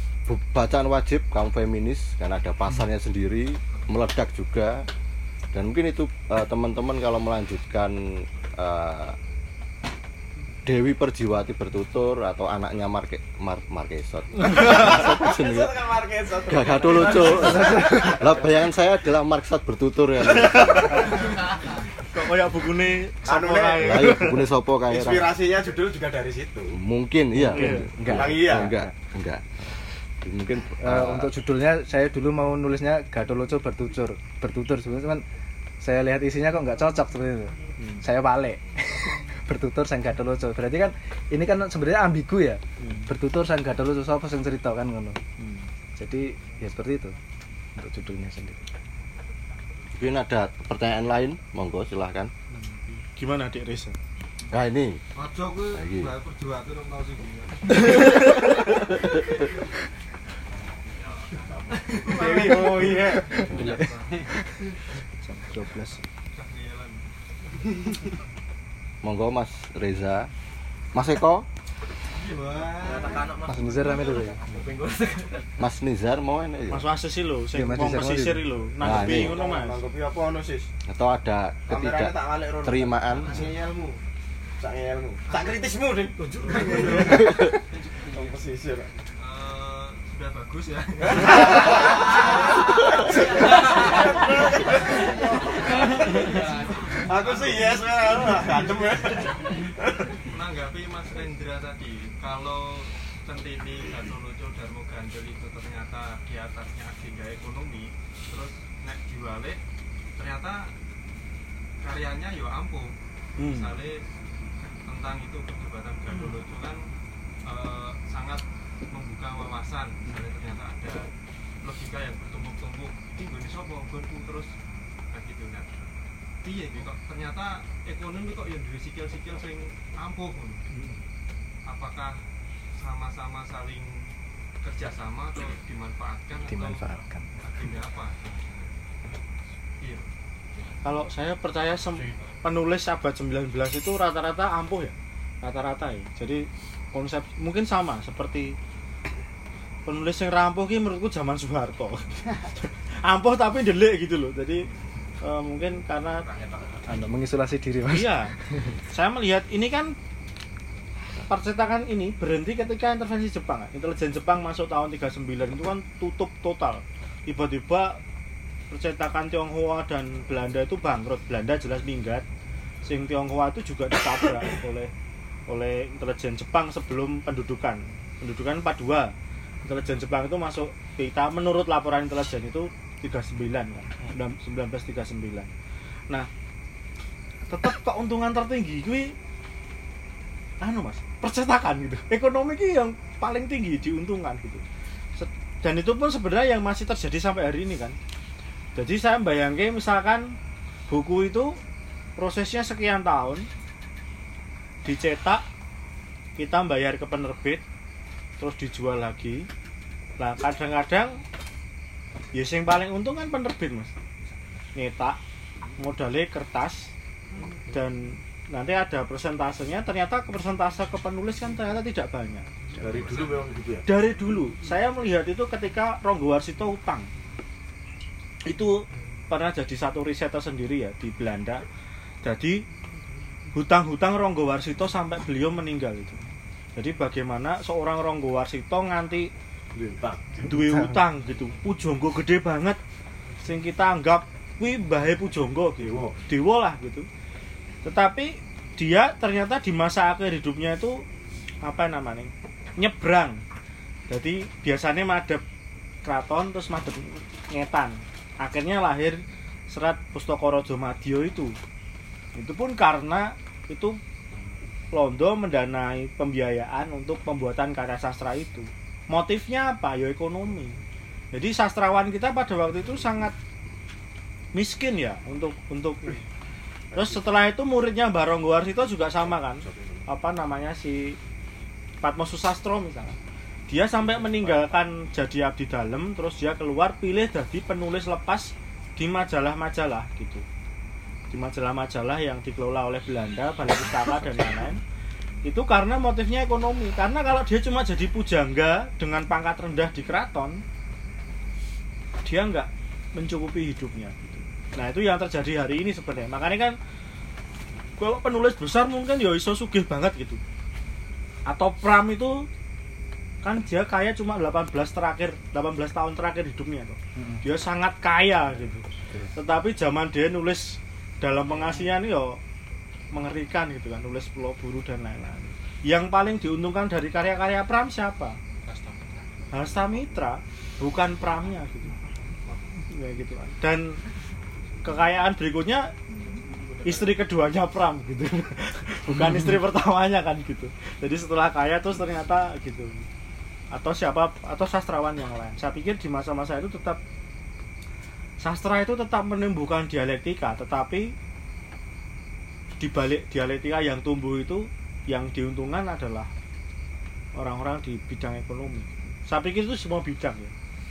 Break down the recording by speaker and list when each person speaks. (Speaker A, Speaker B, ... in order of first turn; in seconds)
Speaker A: 0.3-4.9, 5.5-9.2, 10.7-15.7, 16.5-21.3, 23.8-25.3, 26.7-31.3, 50.0-52.3, 54.5-55.0, 55.7-56.2, 58.9-59.3, 63.5-63.8, 69.0-70.3, 70.9-71.5, 75.6-76.9, 78.8-79.4, 80.9-83.5
Speaker B: 14.5-18.5, 23.2-24.1, 24.9-26.8, 28.1-28.8, 61.9-63.5, 78.8-80.7, 81.7-83.5, 84.6-87.5, 88.0-88.9, 91.2-92.2, 93.1-100.1, 222.8-223.8, 239.7-240.5, 245.8-246.1, 276.9-277.2, 279.6-280.0
Speaker C: 17.4-18.2, 27.4-28.9, 30.8-35.2, 35.8-45.2, 46.0-47.1, 47.8-48.6, 65.6-65.8, 73.4-74.4, 77.5-78.4, 136.4-137.3, 156.8-158.7, 240.5-241.0, 317.1-317.4, 339.1-339.5
Speaker D: 20.5-21.5, 22.1-24.5, 27.4-27.9, 37.8-38.0, 42.8-43.1, 45.4-45.7, 52.5-54.0, 65.2-66.0, 76.7-79.8, 113.4-113.8, 130.7-131.0, 140.8-148.6, 149.8-154.7, 155.2-156.3, 157.9-158.3, 158.9-159.9, 161.3-168.0, 168.7-172.2, 172.8-174.9, 175.5-179.1, 179.6-185.5, 187.5-189.1, 190.6-194.6, 195.2-197.9, 198.7-200.3, 200.9-201.6, 202.2-203.5, 204.8-205.4, 206.4-207.6, 208.4-209.5, 210.2-211.2, 212.3-213.9, 214.7-215.2, 215.8-216.9, 217.7-222.5, 223.8-227.1, 228.4-231.6, 232.2-232.6, 233.5-236.2, 236.8-239.3, 240.4-242.8, 243.4-247.1, 247.8-251.0, 251.6-253.4, 254.1-255.4, 256.0-261.6, 262.3-264.0, 264.9-270.8, 271.3-273.3, 274.5-276.2, 276.9-281.2, 282.0-283.2, 283.7-290.4, 291.3-294.8, 295.4-300.6, 302.2-306.7, 308.0-310.4, 311.5-312.5, 313.4-322.4, 323.1-328.4, 329.5-331.9, 332.9-334.0, 334.8-335.9, 336.8-343.1, 343.7-347.0, 348.4-351.1, 352.8-356.3, 357.3-360.5
Speaker E: 55.1-58.4, 61.1-64.8, 66.3-67.0, 67.5-68.0, 72.1-75.4, 83.2-84.0, 85.3-85.6, 86.3-88.3, 89.2-98.4, 100.2-109.6, 110.2-110.7, 111.8-114.1, 114.6-116.9, 117.4-121.1, 121.6-124.5, 125.1-125.8, 126.4-130.6, 131.7-138.7, 139.8-140.1, 156.2-156.8